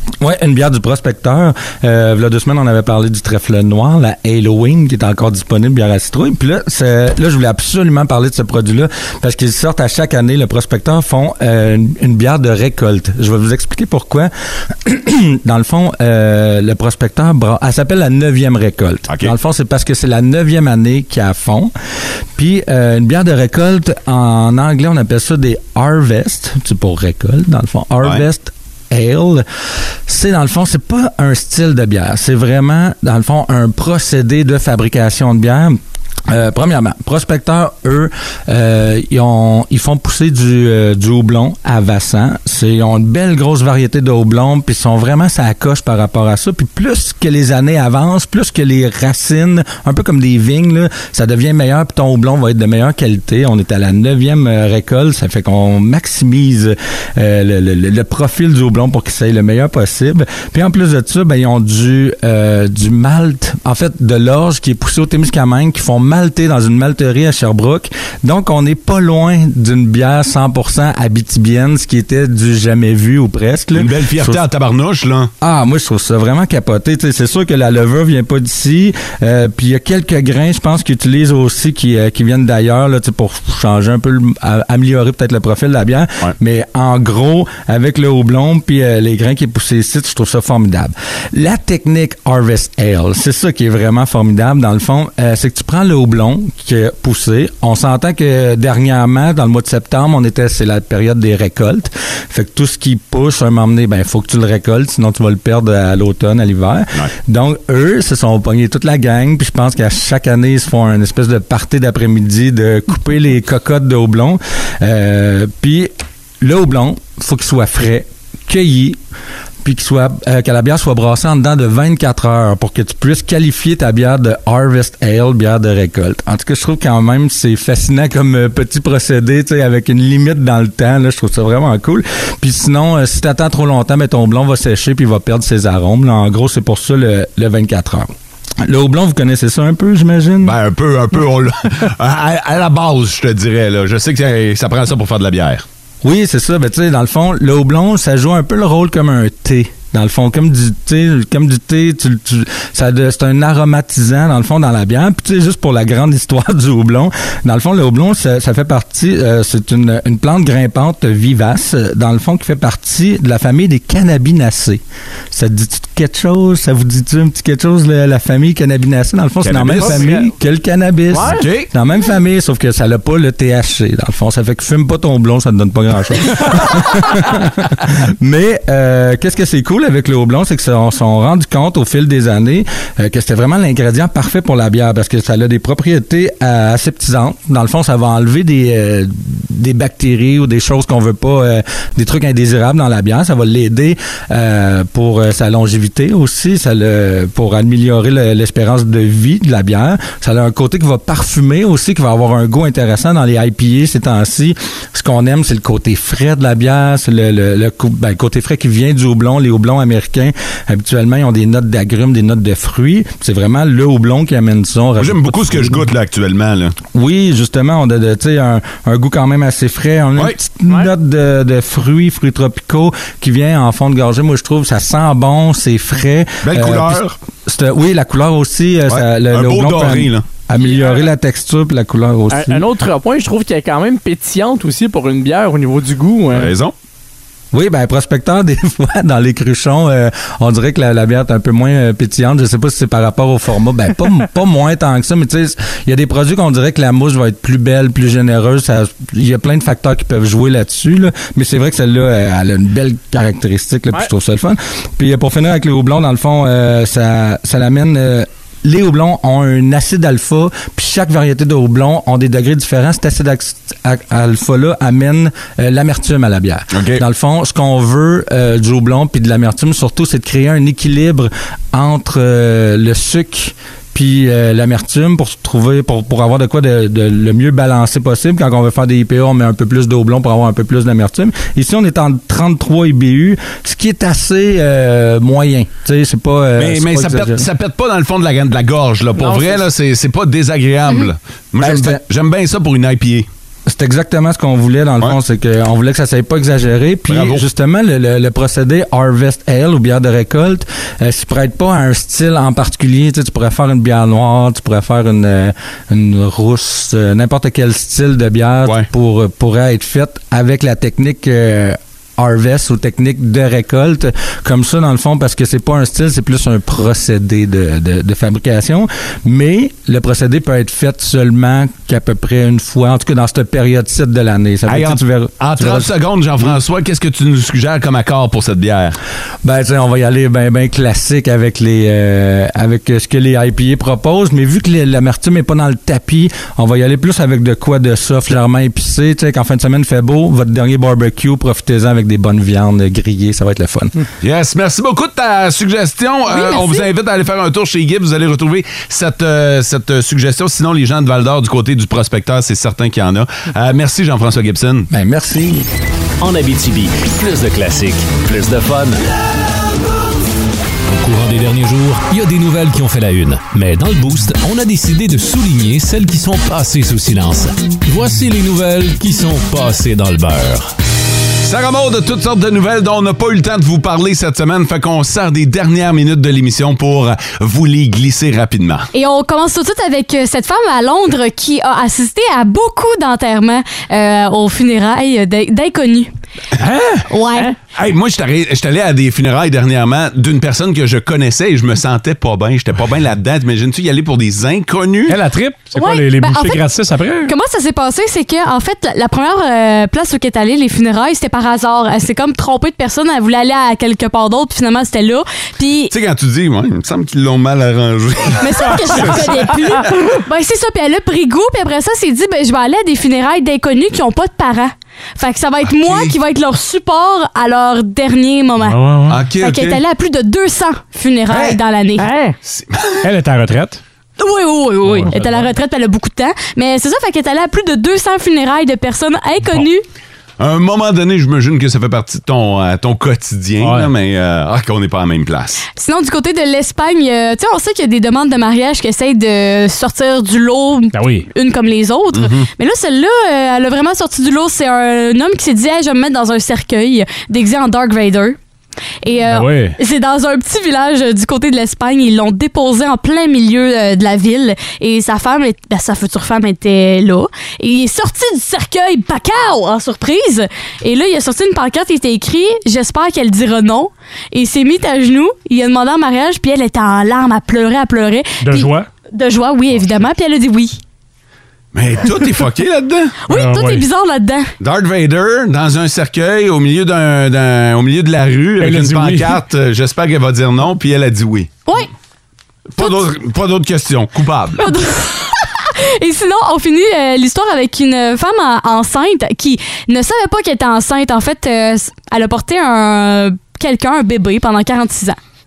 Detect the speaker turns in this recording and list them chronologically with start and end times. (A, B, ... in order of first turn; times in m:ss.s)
0:00.2-0:21.7 A
0:19.1-0:19.3 B
0:22.4-0:29.4 A
0:30.1-1:14.4 A
1:13.8-1:15.3 B
1:15.4-1:59.0 A
1:59.6-2:18.1 A
2:18.6-2:20.6 A
2:20.4-2:25.6 B
2:26.0-2:44.8 A
2:45.3-3:35.8 A
2:49.4-2:50.3 B
2:49.9-2:50.1 C
2:51.1-2:51.5 C
2:51.2-2:51.7 B
3:35.0-3:36.8 B
3:36.9-3:52.7 A
3:46.4-3:47.2 B
3:48.9-3:50.3 B
3:50.6-3:51.0 C
3:52.3-3:56.5 C
3:56.3-3:56.7 B
3:57.5-4:47.5 A
4:26.7-4:27.0 B
4:46.6-4:53.3 B
4:49.2-4:49.6 C
4:51.6-4:52.0 A
4:53.7-5:26.6 A
4:57.1-4:57.4 B
5:24.7-5:29.0 B
5:29.4-5:44.0 A
5:44.2-5:54.9 B
5:46.3-5:46.9 D
5:54.9-5:55.7 A
5:56.2-5:59.0 E
6:00.9-6:10.7 E
6:11.4-6:18.9 B
6:18.9-6:26.1 D
6:26.6-6:27.0 F
6:27.1-6:27.5 D
6:27.7-6:35.2 B
6:35.1-6:37.3 F
6:35.8-6:36.6 D
6:37.3-6:45.9 D
6:45.9-6:49.9 B
6:48.4-6:58.8 D
6:55.7-6:56.2 B
6:58.6-6:59.2 F
6:59.1-6:59.8 B
6:59.4-7:02.1 D
7:01.3-7:01.6 B
7:02.0-7:02.4 C
7:02.4-7:03.1 B
7:03.0-7:03.8 F
7:04.2-7:09.8 D
7:04.8-7:05.5 F
7:10.4-7:15.6 B
7:13.6-7:13.9 F
7:15.8-7:28.4 D
7:20.9-7:21.3 F
7:22.1-7:22.5 B
7:29.0-7:50.8 D
7:29.3-7:29.8 F
7:48.4-7:48.9 F
7:51.7-7:53.2 B
7:53.3-7:54.5 D
7:53.3-7:53.9 F
7:54.6-8:01.5 B
7:58.6-7:59.4 F
8:02.7-8:04.7 B
8:04.6-8:15.2 D